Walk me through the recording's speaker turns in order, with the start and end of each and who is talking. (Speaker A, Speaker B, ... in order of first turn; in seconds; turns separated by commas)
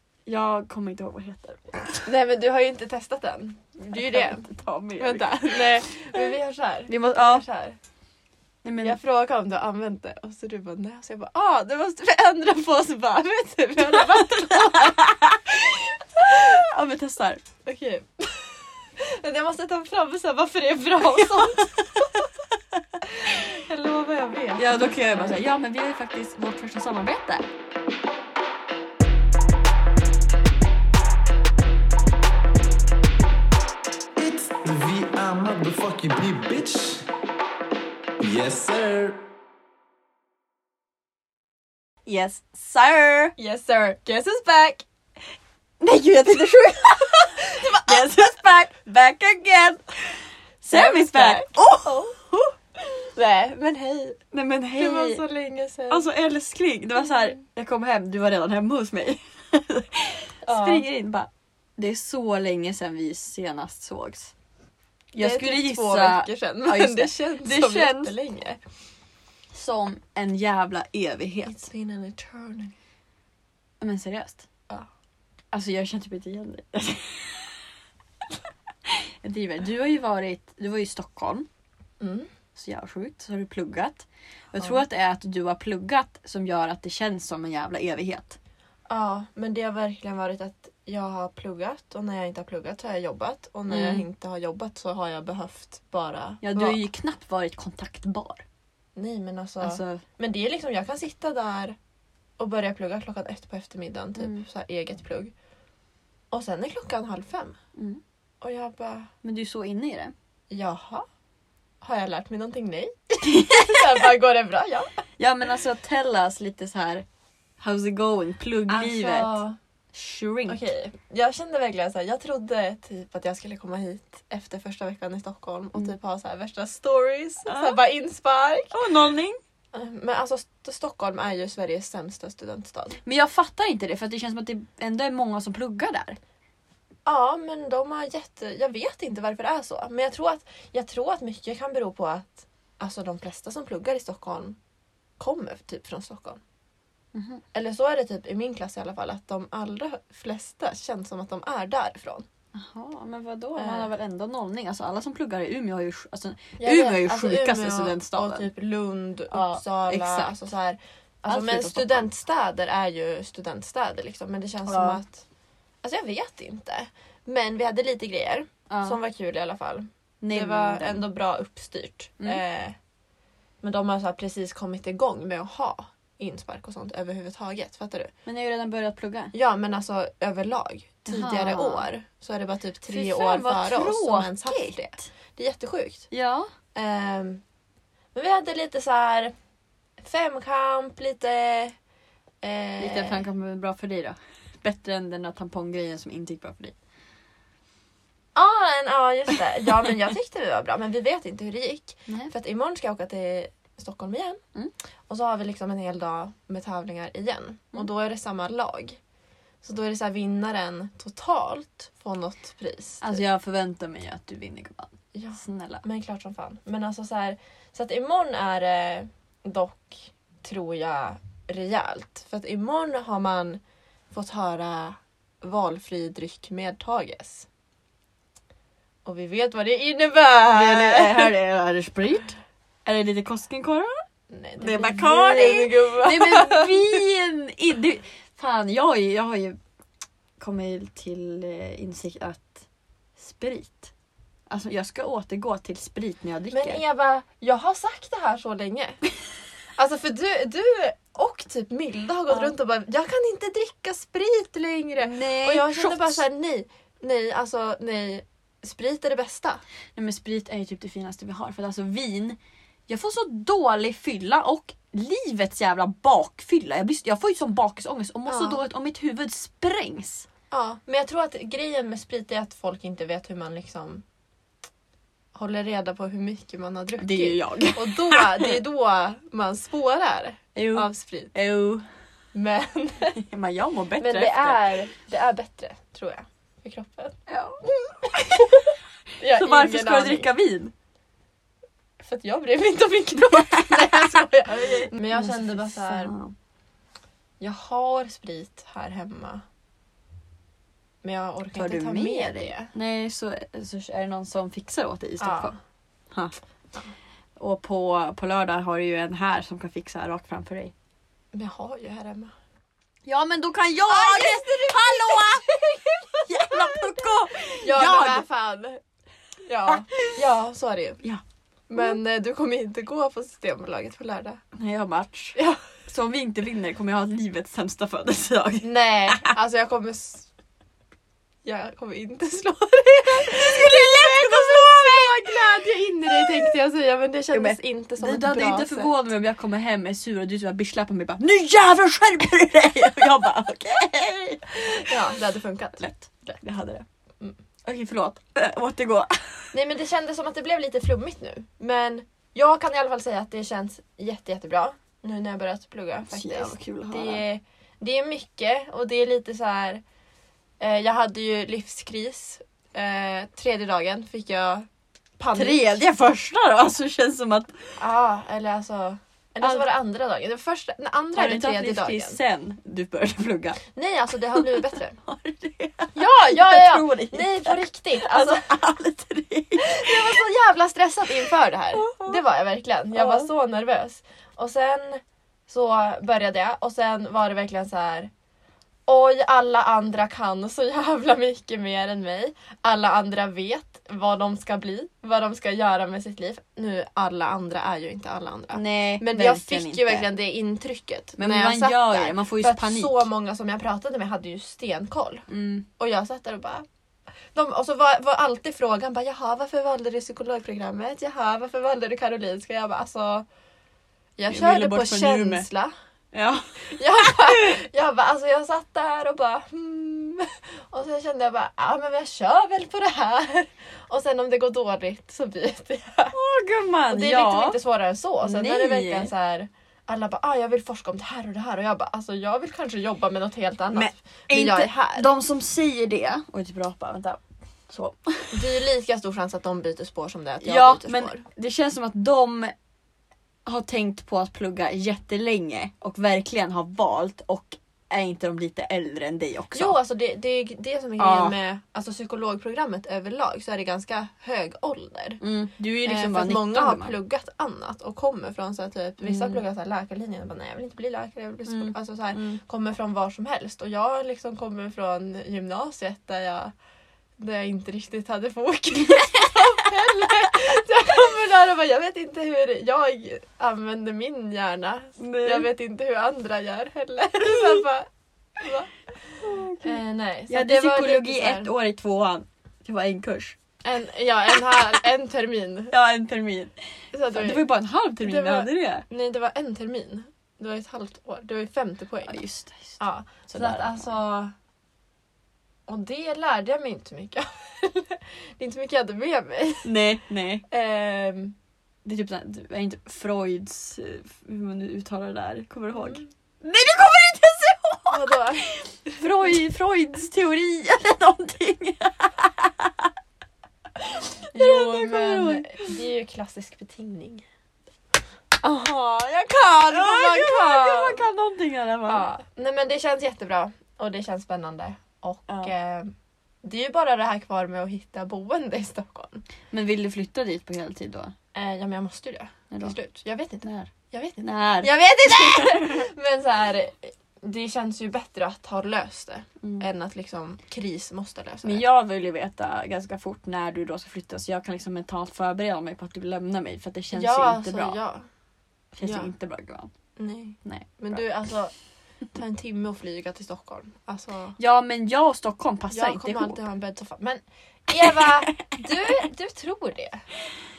Speaker A: 0.3-2.1, Speaker B: 2.0-4.5, Speaker A: 3.8-5.9, Speaker B: 5.0-7.8, Speaker A: 6.9-7.5, Speaker A: 8.6-9.0, Speaker B: 8.8-15.1, Speaker A: 13.9-17.4, Speaker B: 16.2-16.6, Speaker B: 17.6-22.3, Speaker A: 21.4-21.7, Speaker B: 23.0-25.4, Speaker A: 24.6-27.5, Speaker C: 34.2-37.1, Speaker C: 38.2-39.2, Speaker A: 42.1-43.4, Speaker B: 43.4-44.9, Speaker A: 45.8-52.1, Speaker B: 47.1-48.2, Speaker B: 50.7-52.2, Speaker B: 53.1-54.2, Speaker A: 54.3-55.2, Speaker B: 54.8-56.1, Speaker A: 55.9-64.3, Speaker B: 60.5-60.9, Speaker B: 65.1-68.6, Speaker A: 65.2-68.2, Speaker A: 69.5-71.7, Speaker B: 71.5-72.8, Speaker A: 73.8-74.5, Speaker A: 75.5-77.5, Speaker A: 78.9-81.5, Speaker B: 82.0-82.3, Speaker A: 82.5-88.4, Speaker B: 88.9-96.8, Speaker A: 93.7-94.0, Speaker A: 96.4-98.4, Speaker B: 99.0-101.8, Speaker A: 99.6-100.0, Speaker B: 102.4-105.3, Speaker A: 104.2-104.4, Speaker B: 106.3-107.6, Speaker A: 107.8-108.0, Speaker B: 108.4-109.1, Speaker A: 109.2-110.1, Speaker B: 110.5-111.1, Speaker B: 111.8-114.9, Speaker A: 113.2-114.0, Speaker A: 115.2-117.0, Speaker A: 117.6-119.4, Speaker B: 118.7-119.6, Speaker A: 119.9-120.6, Speaker B: 120.5-128.7, Speaker A: 127.5-127.8, Speaker A: 128.7-129.4, Speaker B: 129.7-133.0, Speaker A: 133.0-136.2, Speaker B: 137.1-144.6, Speaker B: 145.2-146.4, Speaker A: 147.1-147.4, Speaker B: 147.5-152.3, Speaker A: 152.6-158.5, Speaker B: 153.6-153.9, Speaker B: 156.6-165.2, Speaker A: 159.3-160.3, Speaker A: 161.3-162.1, Speaker A: 164.7-165.0, Speaker B: 165.8-172.8, Speaker A: 168.7-169.0, Speaker A: 170.2-171.1, Speaker B: 173.6-178.1, Speaker A: 178.2-179.3, Speaker B: 179.3-186.1, Speaker A: 181.1-181.9, Speaker A: 182.9-185.1, Speaker A: 186.1-186.5, Speaker B: 186.7-187.4, Speaker B: 188.1-189.3, Speaker B: 190.0-191.8, Speaker B: 192.4-193.2, Speaker A: 192.8-196.8, Speaker B: 198.3-204.4, Speaker B: 205.1-209.0, Speaker B: 209.6-213.2, Speaker A: 213.0-215.8, Speaker B: 215.1-227.5, Speaker B: 229.1-231.3, Speaker A: 230.5-234.0, Speaker B: 234.3-237.0, Speaker A: 234.6-239.6, Speaker A: 240.4-242.6, Speaker A: 243.2-243.9, Speaker A: 244.5-246.8, Speaker B: 246.5-249.0, Speaker B: 249.8-259.6, Speaker A: 255.0-256.2, Speaker A: 260.0-262.4, Speaker A: 262.9-270.3, Speaker B: 268.3-268.6, Speaker B: 270.5-274.0, Speaker B: 275.4-281.3, Speaker A: 277.0-278.6, Speaker A: 280.6-281.9, Speaker B: 282.3-283.2, Speaker A: 283.1-284.7, Speaker B: 284.0-287.3, Speaker A: 287.3-288.6, Speaker B: 288.1-288.7, Speaker B: 289.2-290.3, Speaker A: 289.2-290.7, Speaker B: 292.0-296.1, Speaker A: 293.3-296.3, Speaker B: 297.4-299.4, Speaker B: 301.0-302.7, Speaker A: 301.5-305.6, Speaker B: 305.2-305.6, Speaker A: 306.1-306.4, Speaker A: 307.4-310.7, Speaker B: 311.3-312.3, Speaker A: 313.1-315.5, Speaker B: 313.9-318.8, Speaker A: 316.2-318.2, Speaker B: 319.4-321.0, Speaker A: 319.7-320.2, Speaker B: 321.7-324.4, Speaker A: 324.6-329.3, Speaker B: 325.4-325.6, Speaker B: 328.6-330.3, Speaker B: 331.4-338.9, Speaker A: 333.1-335.5, Speaker A: 336.1-336.5, Speaker A: 337.3-345.1, Speaker B: 344.6-345.9, Speaker A: 345.8-346.9, Speaker A: 347.6-349.5, Speaker B: 349.5-359.8, Speaker A: 356.1-357.2, Speaker B: 360.6-364.7, Speaker B: 365.2-365.8, Speaker A: 365.3-367.8, Speaker B: 367.8-372.2, Speaker A: 369.4-369.7, Speaker A: 371.2-373.6, Speaker B: 373.7-375.0, Speaker A: 374.4-380.2, Speaker B: 375.9-378.5, Speaker B: 379.6-388.1, Speaker A: 381.8-382.2, Speaker A: 382.9-383.3, Speaker B: 388.9-405.3, Speaker A: 398.5-400.1, Speaker A: 401.2-403.1, Speaker A: 405.3-405.7, Speaker B: 405.8-406.7, Speaker B: 407.3-413.3, Speaker B: 414.2-415.7, Speaker A: 414.3-415.5, Speaker A: 416.1-417.6, Speaker B: 416.6-426.1, Speaker A: 426.1-427.6, Speaker B: 426.9-435.1, Speaker A: 428.2-429.1, Speaker A: 433.7-438.4, Speaker B: 438.3-441.2, Speaker A: 440.4-442.5, Speaker A: 443.5-449.8, Speaker B: 449.6-455.2, Speaker A: 451.0-451.4, Speaker A: 455.2-457.0, Speaker B: 455.9-466.5, Speaker A: 459.0-459.4, Speaker A: 461.5-462.4, Speaker B: 467.2-477.9, Speaker A: 469.0-469.7, Speaker A: 475.0-475.5, Speaker A: 477.2-477.5, Speaker B: 478.4-481.5, Speaker A: 479.2-483.4, Speaker B: 483.6-485.7, Speaker A: 485.7-486.5, Speaker B: 486.9-487.4, Speaker A: 487.1-488.9, Speaker B: 488.0-492.2, Speaker A: 492.1-493.9, Speaker B: 492.8-494.3, Speaker B: 495.7-499.7, Speaker A: 499.6-500.4, Speaker B: 500.5-501.4, Speaker A: 501.9-512.9, Speaker B: 505.8-506.1, Speaker B: 507.9-509.0, Speaker A: 513.8-515.8, Speaker B: 514.3-517.2, Speaker B: 518.4-521.0, Speaker A: 519.7-522.1, Speaker B: 521.9-529.2, Speaker A: 529.5-531.1, Speaker B: 531.3-541.6, Speaker A: 532.5-532.8, Speaker A: 533.4-535.9, Speaker A: 541.4-547.8, Speaker B: 546.9-548.1, Speaker A: 548.8-549.7, Speaker B: 548.8-549.1, Speaker B: 550.0-551.5, Speaker A: 550.4-551.0, Speaker B: 552.1-554.4, Speaker A: 554.4-556.4, Speaker B: 555.7-560.0, Speaker A: 557.7-558.7